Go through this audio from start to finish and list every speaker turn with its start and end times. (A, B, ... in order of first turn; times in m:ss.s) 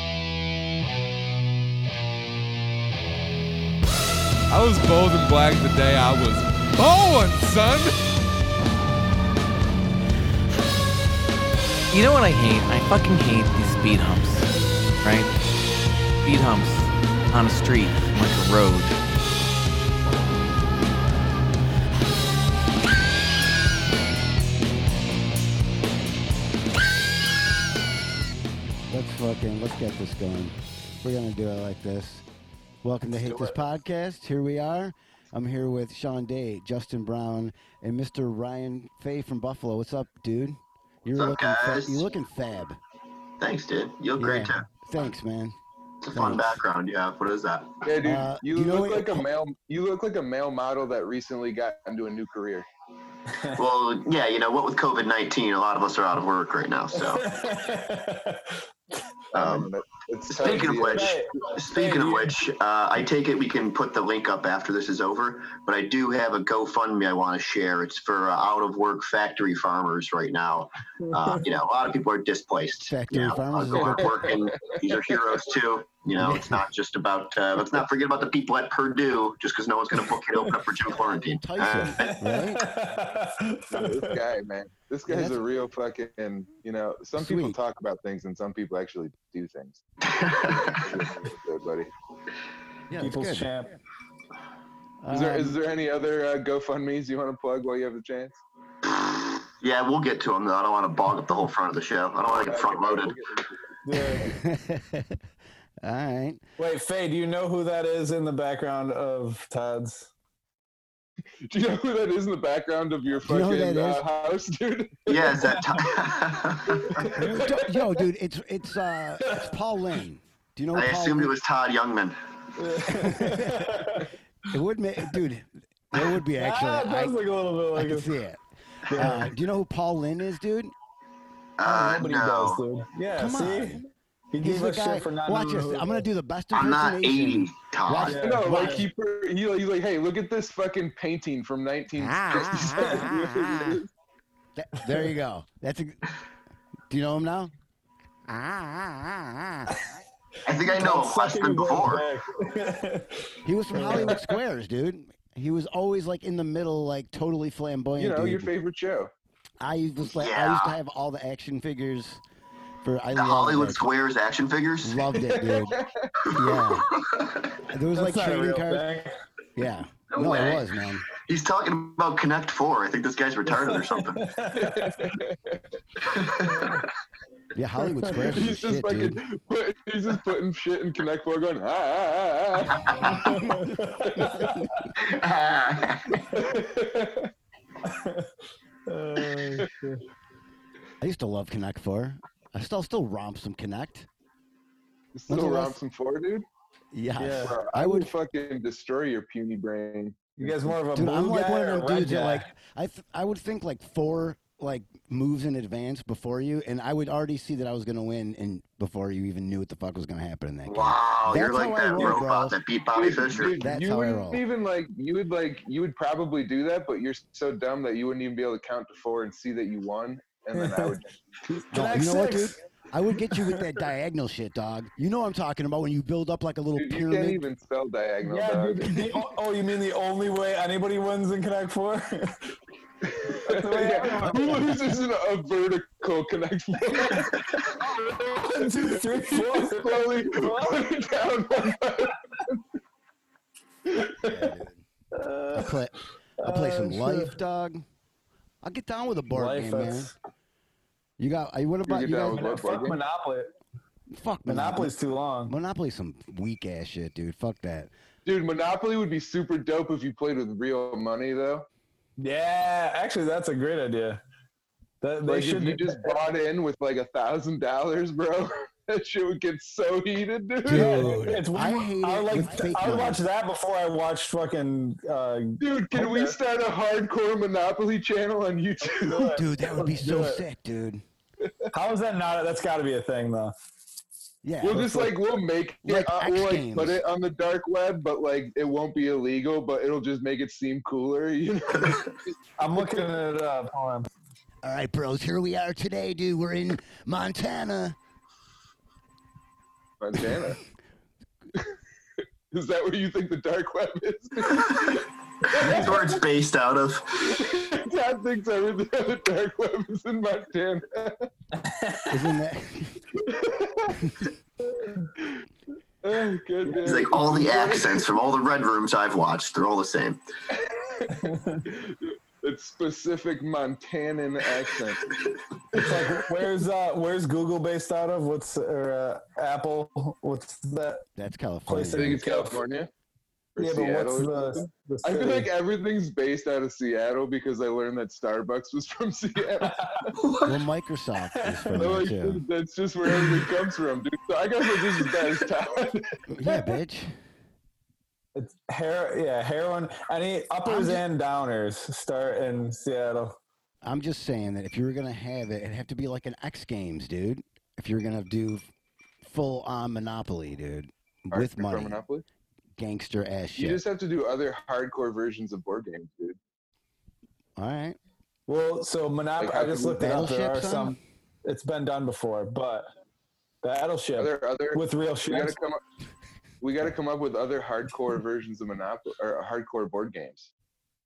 0:04.5-0:08.0 A
0:11.9-0:14.5 B
0:15.0-0:15.3 B
0:16.2-0:19.0 B
0:28.9-0:32.2 C
0:32.8-0:42.8 C
0:41.1-0:42.1 D
0:43.4-0:44.7 D
0:44.2-0:45.6 C
0:46.0-0:47.8 D
0:46.1-0:46.6 C
0:47.8-0:52.7 E
0:48.0-0:49.3 C
0:53.3-0:53.6 F
0:53.6-0:57.2 D
0:57.0-0:58.6 F
0:59.3-0:59.7 D
0:59.3-1:01.5 E
1:00.3-1:22.2 D
1:00.6-1:02.3 F
1:11.0-1:11.4 F
1:12.9-1:14.2 C
1:13.7-1:14.4 E
1:16.2-1:16.7 C
1:20.8-1:22.7 C
1:21.8-1:24.2 F
1:23.7-1:29.8 E
1:25.1-1:25.4 C
1:27.2-1:27.6 C
1:30.0-1:30.9 D
1:30.4-1:31.9 E
1:32.9-1:33.5 C
1:33.0-1:33.7 F
1:35.0-1:35.6 C
1:35.1-1:38.4 E
1:38.8-1:43.2 D
1:42.4-1:43.6 E
1:43.8-1:44.3 F
1:44.2-1:45.2 C
1:45.8-1:46.4 C
1:46.6-1:50.1 F
1:51.5-1:56.0 E
1:53.2-1:54.0 C
1:55.1-1:57.2 D
1:56.9-1:57.7 E
1:57.1-2:01.3 C
1:59.2-1:59.5 F
2:00.7-2:02.2 D
2:02.6-2:04.1 F
2:03.0-2:03.9 C
2:04.4-2:07.2 C
2:06.3-2:08.1 F
2:07.7-2:10.7 C
2:08.9-2:09.3 F
2:11.6-2:12.6 D
2:11.6-2:16.1 F
2:13.1-2:13.8 C
2:14.4-2:18.8 C
2:16.5-2:18.2 D
2:18.1-2:18.8 F
2:18.2-2:23.9 E
2:22.0-2:23.8 C
2:24.6-2:26.0 C
2:26.9-2:27.5 C
2:28.3-2:29.8 C
2:30.4-2:32.1 D
2:30.7-2:34.2 F
2:33.4-2:38.5 C
2:38.0-2:39.1 E
2:39.6-2:42.2 C
2:40.1-2:40.8 D
2:42.8-2:43.9 C
2:43.2-2:45.1 D
2:44.8-2:45.8 C
2:45.3-2:45.9 E
2:46.2-2:47.6 D
2:46.3-2:46.9 C
2:47.7-2:48.9 C
2:47.9-2:49.2 F
2:49.6-2:51.1 C
2:50.1-2:54.3 D
2:53.5-2:55.2 F
2:54.5-2:55.6 E
2:56.0-2:56.8 D
2:57.5-2:59.2 C
2:58.3-3:03.1 E
3:03.0-3:04.8 F
3:04.2-3:04.6 E
3:04.9-3:06.2 D
3:06.3-3:07.3 E
3:07.8-3:08.3 F
3:08.9-3:10.0 F
3:11.0-3:14.1 C
3:15.2-3:16.4 E
3:15.3-3:15.8 C
3:16.9-3:18.1 C
3:17.2-3:17.5 F
3:17.4-3:20.7 E
3:20.4-3:22.5 F
3:20.9-3:32.6 C
3:30.7-3:33.6 D
3:32.9-3:41.2 E
3:33.6-3:34.4 C
3:40.6-3:40.9 F
3:41.5-3:42.6 F
3:41.7-3:47.4 C
3:43.2-3:43.6 F
3:46.8-3:49.2 E
3:48.2-3:52.6 F
3:53.1-4:02.6 E
3:53.4-3:54.8 F
3:57.0-4:00.8 F
4:03.8-4:04.6 E
4:04.2-4:04.8 C
4:05.1-4:05.8 F
4:05.5-4:07.8 C
4:06.4-4:07.4 F
4:08.6-4:10.1 C
4:09.3-4:10.1 F
4:11.2-4:12.5 C
4:11.8-4:13.0 E
4:12.3-4:13.5 F
4:14.1-4:14.9 C
4:14.5-4:15.5 F
4:15.5-4:17.9 C
4:18.3-4:21.7 E
4:22.2-4:24.2 F
4:25.0-4:26.2 F
4:25.3-4:31.4 E
4:30.6-4:33.3 C
4:30.7-4:36.4 F
4:35.6-4:39.4 E
4:38.9-4:40.4 F
4:39.4-4:41.0 C
4:41.7-4:43.6 F
4:44.4-4:44.8 C
4:44.6-4:52.3 E
4:44.7-4:45.1 F
4:45.8-4:47.0 C
4:52.6-4:54.1 F
4:54.6-4:58.0 C
5:00.0-5:00.6 E
5:02.5-5:05.9 E
5:04.5-5:04.9 D
5:05.5-5:07.4 D
5:05.6-5:05.9 C
5:07.2-5:11.3 E
5:11.6-5:12.2 F
5:12.1-5:13.0 C
5:13.2-5:13.9 E
5:14.6-5:15.1 F
5:16.0-5:18.1 E
5:16.8-5:20.2 D
5:20.5-5:25.1 E
5:21.1-5:21.6 F
5:25.7-5:31.1 F
5:31.2-5:32.2 C
5:31.7-5:32.6 F
5:32.0-5:32.9 E
5:33.6-5:39.8 E
5:33.6-5:35.5 F
5:39.7-5:40.1 F
5:40.2-5:40.6 D
5:40.4-5:42.4 C
5:41.8-5:46.7 E
5:46.3-5:47.1 C
5:48.4-5:53.4 F
5:50.6-5:51.0 C
5:53.8-5:58.7 C
5:59.2-6:02.0 C
6:01.3-6:02.2 E
6:02.8-6:03.8 C
6:03.6-6:06.4 E
6:07.6-6:08.0 C
6:08.5-6:12.9 F
6:09.4-6:10.0 E
6:10.0-6:11.0 C
6:13.6-6:15.6 F
6:14.2-6:15.8 E
6:16.6-6:20.5 E